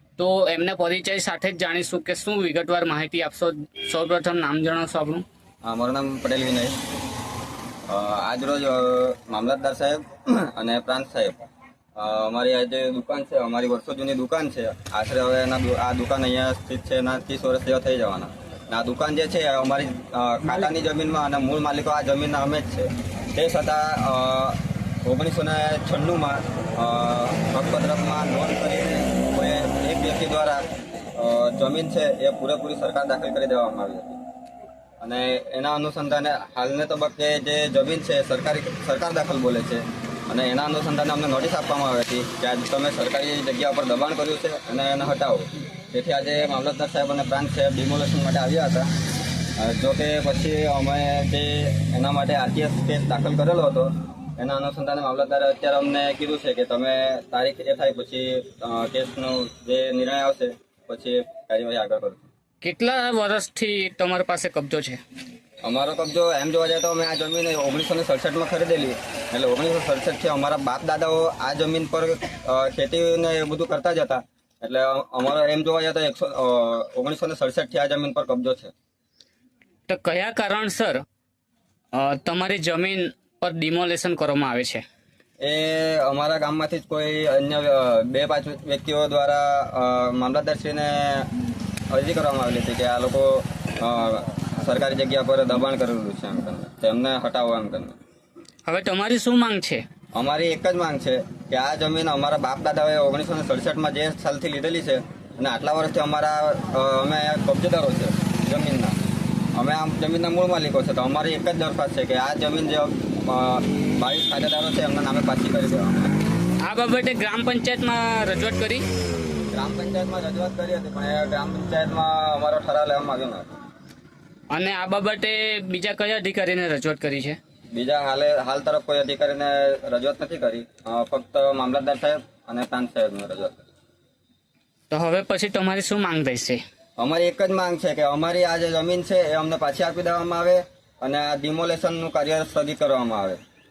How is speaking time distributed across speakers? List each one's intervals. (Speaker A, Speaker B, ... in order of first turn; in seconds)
Speaker A: 0.2-5.2, 62.6-65.0, 79.9-81.0, 81.9-84.8, 98.7-99.8, 116.6-118.8, 124.5-127.4, 134.9-136.6
Speaker B: 5.6-6.8, 7.9-30.6, 31.2-34.2, 35.0-48.9, 49.6-62.3, 65.6-78.7, 85.4-91.3, 91.9-98.0, 100.2-109.0, 109.5-116.1, 119.5-123.5, 127.7-133.7, 137.0-143.4